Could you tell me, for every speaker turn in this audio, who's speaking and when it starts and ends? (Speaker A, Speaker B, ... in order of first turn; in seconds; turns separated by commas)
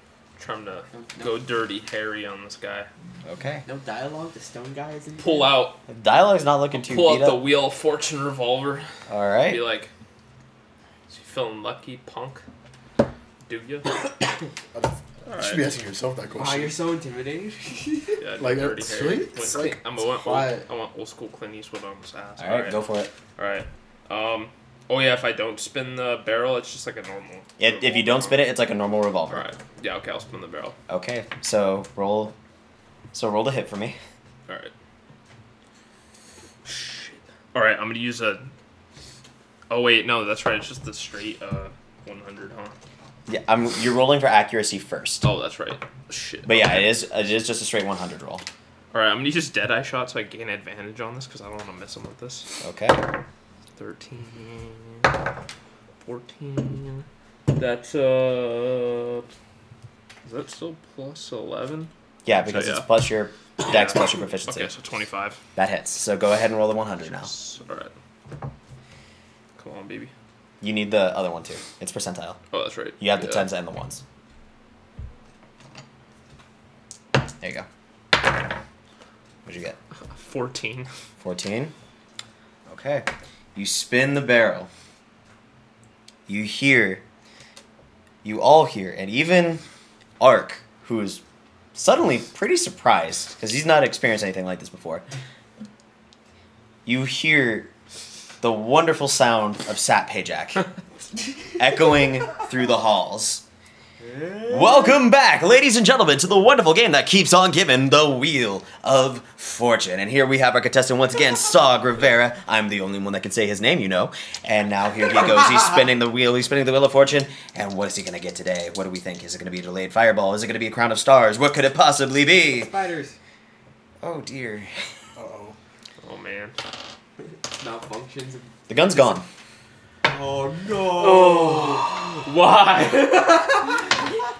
Speaker A: 0.3-2.9, Speaker B: 0.9-1.5, Speaker C: 3.2-3.6, Speaker B: 3.6-5.7, Speaker A: 5.2-5.8, Speaker C: 5.9-7.5, Speaker A: 6.7-8.9, Speaker C: 9.1-9.6, Speaker A: 9.5-9.9, Speaker A: 11.1-12.4, Speaker A: 13.5-13.9, Speaker D: 14.7-16.8, Speaker A: 15.2-15.7, Speaker B: 16.3-18.2, Speaker A: 18.2-22.8, Speaker D: 18.4-20.6, Speaker C: 22.4-23.1, Speaker A: 23.4-28.5, Speaker C: 27.6-29.4, Speaker A: 29.3-30.8, Speaker C: 30.9-32.3, Speaker C: 33.1-34.0, Speaker A: 34.5-34.7, Speaker A: 36.6-38.5, Speaker A: 39.7-42.8, Speaker C: 43.3-45.3, Speaker A: 45.2-47.0, Speaker C: 46.4-48.4, Speaker A: 48.9-52.5, Speaker C: 52.6-53.1, Speaker A: 53.8-55.1, Speaker A: 56.0-59.3, Speaker A: 60.2-62.9, Speaker C: 62.2-64.7, Speaker A: 63.6-65.4, Speaker C: 65.5-67.3, Speaker A: 67.0-67.9, Speaker A: 69.5-70.1, Speaker C: 70.6-72.4, Speaker A: 72.5-73.5, Speaker C: 73.0-74.0, Speaker C: 77.4-77.7, Speaker C: 79.5-79.8, Speaker A: 80.1-80.9, Speaker C: 81.2-81.7, Speaker C: 82.7-84.7, Speaker C: 86.3-87.0, Speaker C: 88.2-89.6, Speaker C: 90.2-91.2, Speaker C: 91.7-95.0, Speaker C: 96.8-97.7, Speaker C: 98.4-100.7, Speaker C: 101.6-103.4, Speaker B: 104.0-104.9, Speaker C: 104.5-122.7, Speaker B: 122.5-123.2, Speaker C: 124.0-124.9, Speaker D: 125.2-125.6, Speaker A: 126.0-126.5, Speaker B: 127.2-129.0, Speaker C: 128.7-129.2, Speaker B: 130.0-132.1, Speaker A: 131.0-133.8